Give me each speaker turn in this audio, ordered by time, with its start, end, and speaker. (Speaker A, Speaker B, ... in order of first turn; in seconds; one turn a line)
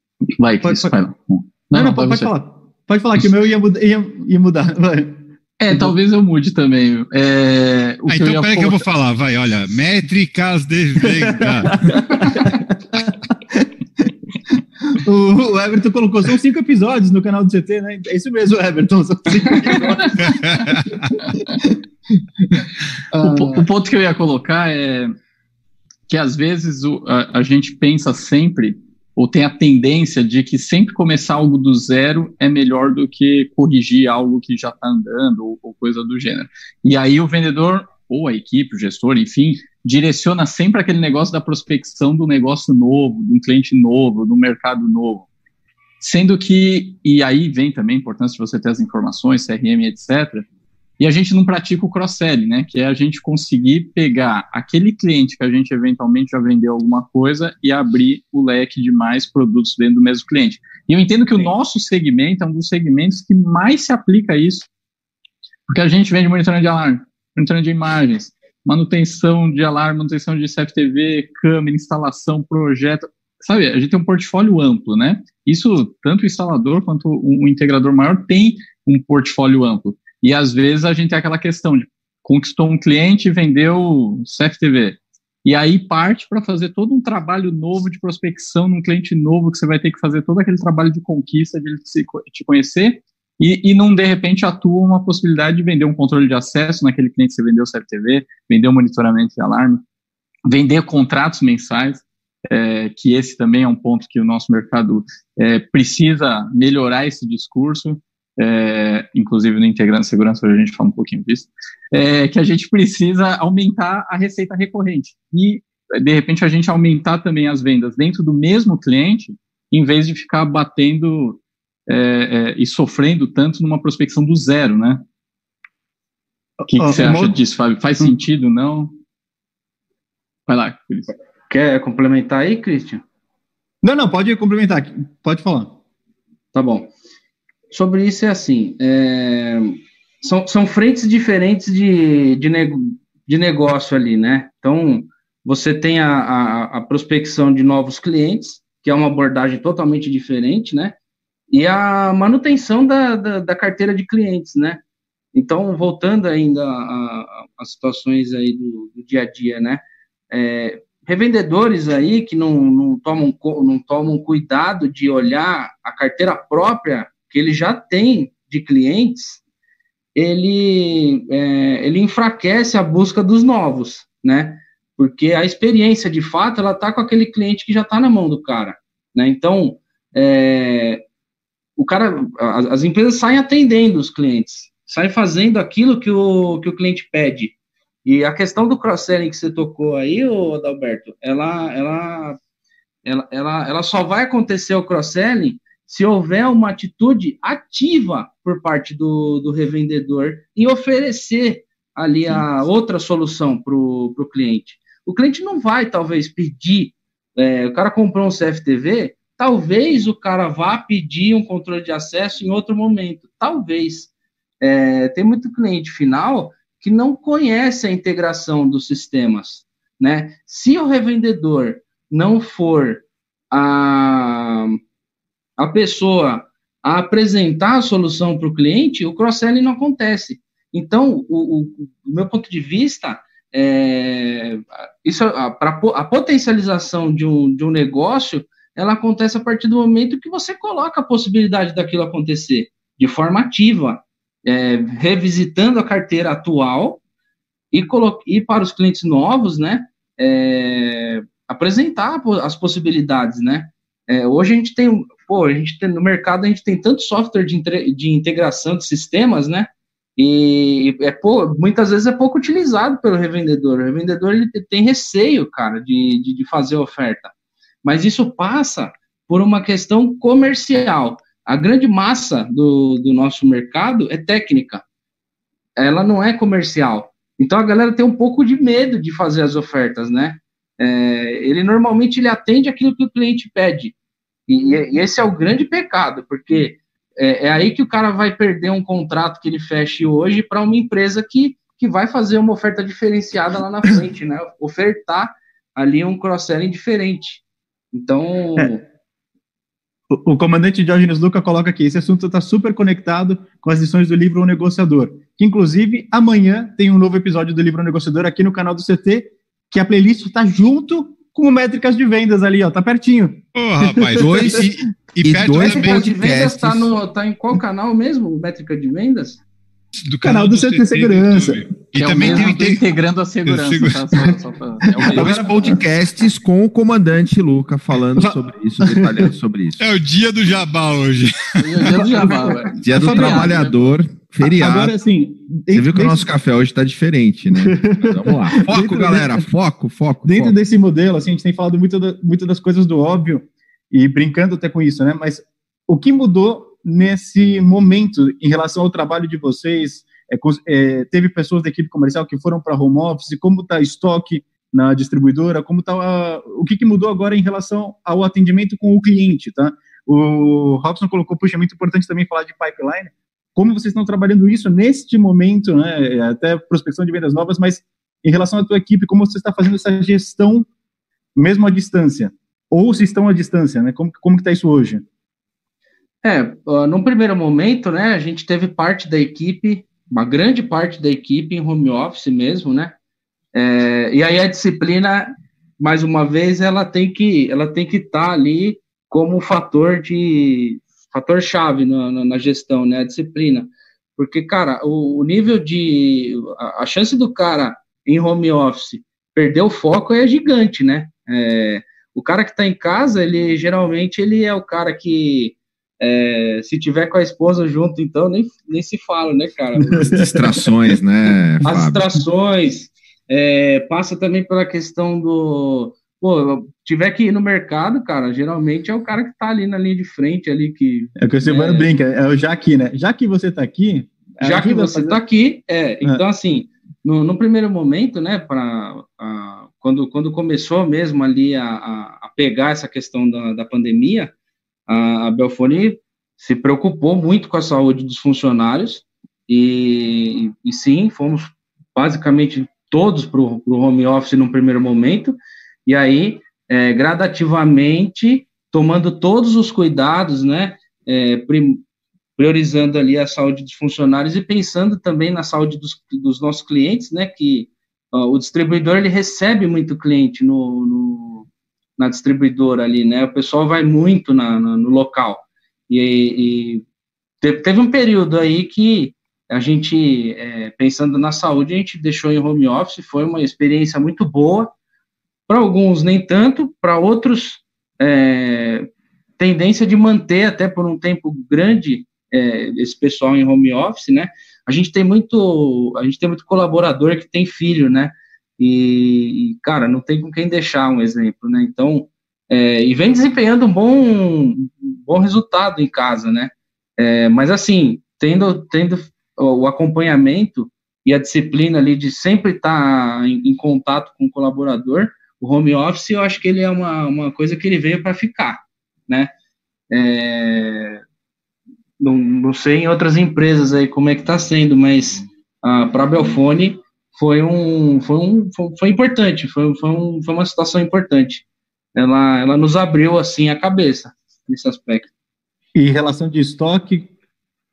Speaker A: 0.4-2.3
Speaker B: 0.6-0.9
Speaker B: 1.7-6.0
Speaker A: 5.6-8.8
Speaker C: 8.1-11.9
Speaker B: 11.5-13.7
Speaker B: 14.9-23.7
Speaker A: 23.2-25.1
Speaker A: 26.1-45.3
Speaker A: 46.0-50.5
Speaker A: 51.0-64.7
Speaker A: 65.7-99.8
Speaker A: 100.5-125.0
Speaker B: 126.6-127.3
Speaker A: 126.7-128.9
Speaker A: 130.5-131.1
Speaker D: 131.5-133.0
Speaker B: 133.8-135.7
Speaker D: 136.5-136.9
Speaker D: 137.7-150.9
Speaker D: 151.5-154.8
Speaker D: 155.3-169.4
Speaker D: 170.1-181.0
Speaker D: 181.8-192.4
Speaker D: 193.0-224.8
Speaker D: 225.6-247.0
Speaker D: 247.7-267.3
Speaker D: 267.8-274.8
Speaker D: 275.8-283.9
Speaker D: 284.5-298.8
Speaker B: 300.1-314.5
Speaker C: 313.5-316.1
Speaker E: 314.2-314.7
Speaker E: 315.2-316.9
Speaker D: 315.6-319.4
Speaker C: 320.0-322.9
Speaker B: 320.2-322.5
Speaker A: 321.9-325.4
Speaker C: 323.4-324.0
Speaker B: 324.9-325.8
Speaker E: 325.1-329.8
Speaker B: 328.1-329.3
Speaker C: 329.8-331.9
Speaker A: 331.6-333.9
Speaker B: 331.9-333.6
Speaker E: 332.8-334.9
Speaker B: 334.4-336.2
Speaker E: 335.7-340.6
Speaker B: 337.5-339.4
Speaker B: 340.2-370.7
Speaker B: 371.3-375.0
Speaker D: 376.2-382.9
Speaker D: 383.5-410.3
Speaker B: 409.9-410.3
Speaker E: 410.1-412.1
Speaker D: 411.6-421.9
Speaker B: 421.2-425.2
Speaker D: 424.4-434.3
Speaker D: 434.9-451.8
Speaker D: 452.4-466.8
Speaker D: 467.4-474.7
Speaker D: 475.5-478.9
Speaker D: 479.4-509.3
Speaker D: 509.9-511.0
Speaker D: 512.0-525.1
Speaker B: 525.7-527.1